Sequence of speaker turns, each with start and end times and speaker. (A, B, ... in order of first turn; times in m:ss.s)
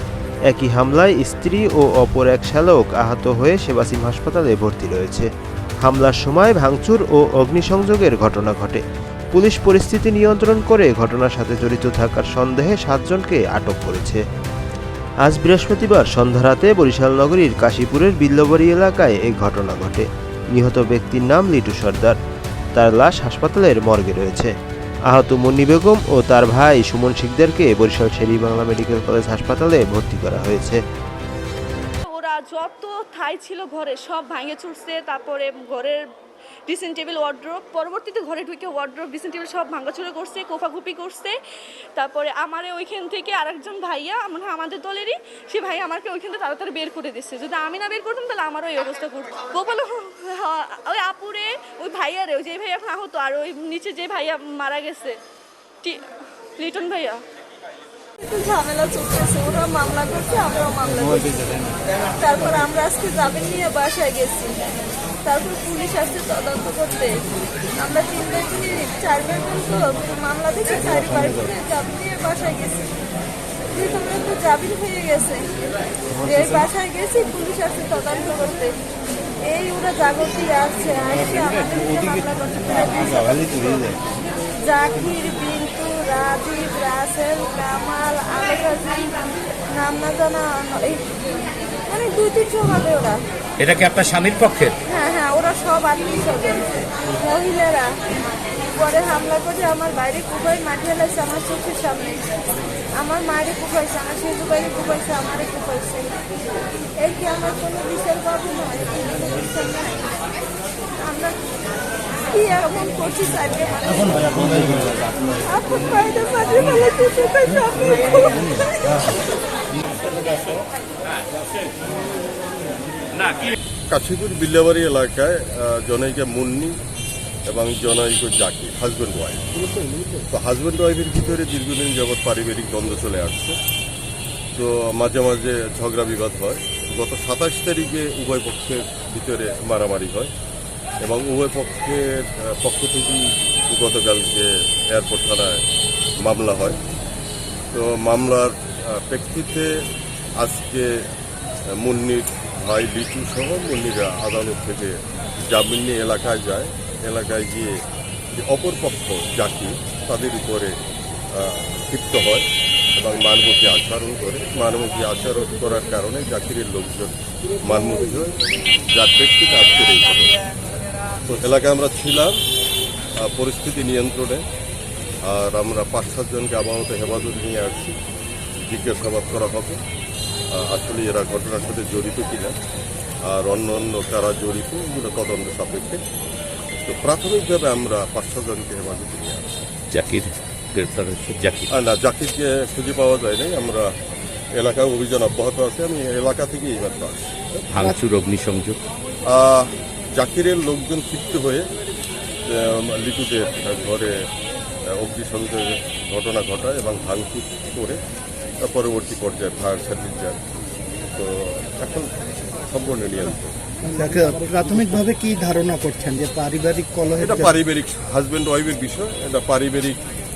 0:00.5-0:05.3 A
0:05.8-0:14.2 A
0:15.2-0:22.2 A
0:22.7-0:24.5 A
0:25.1-0:30.8 A
0:32.0-0:36.0 B
0:36.7-0:41.3 B
0:42.0-0:55.2 B
0:56.6-0:57.2 B
0:58.2-1:04.6 C
1:05.2-1:07.2 C
1:07.8-1:12.9 C
1:13.7-1:15.5 C
1:16.1-1:18.7 C
1:19.4-1:24.0 C
1:24.6-1:31.1 C
1:31.9-1:33.2 C
1:33.7-1:34.8 D
1:34.8-1:37.9 C
1:38.7-1:42.2 C
1:43.0-1:46.2 C
1:47.0-1:50.2 C
1:51.0-1:51.4 C
1:52.2-1:59.1 C
2:03.9-2:06.8 E
2:07.4-2:13.6 E
2:14.5-2:20.3 E
2:21.0-2:25.6 E
2:26.2-2:26.8 E
2:27.7-2:31.1 E
2:31.8-2:40.7 E
2:41.3-2:48.4 E
2:48.9-2:50.5 E
2:51.2-2:52.4 E
2:53.2-2:54.4 E
2:55.2-2:58.0 E
2:58.6-2:59.8 E
3:00.5-3:02.6 E
3:03.2-3:06.0 E
3:06.8-3:09.7 E
3:09.9-3:11.7 D
3:11.7-3:13.9 E
3:14.5-3:17.4 E
3:17.7-3:18.8 D
3:19.2-3:21.7 E
3:22.4-3:24.3 E
3:24.9-3:28.0 E
3:28.6-3:30.4 E
3:31.1-3:33.6 E
3:33.9-3:37.5 F
3:37.2-3:40.0 E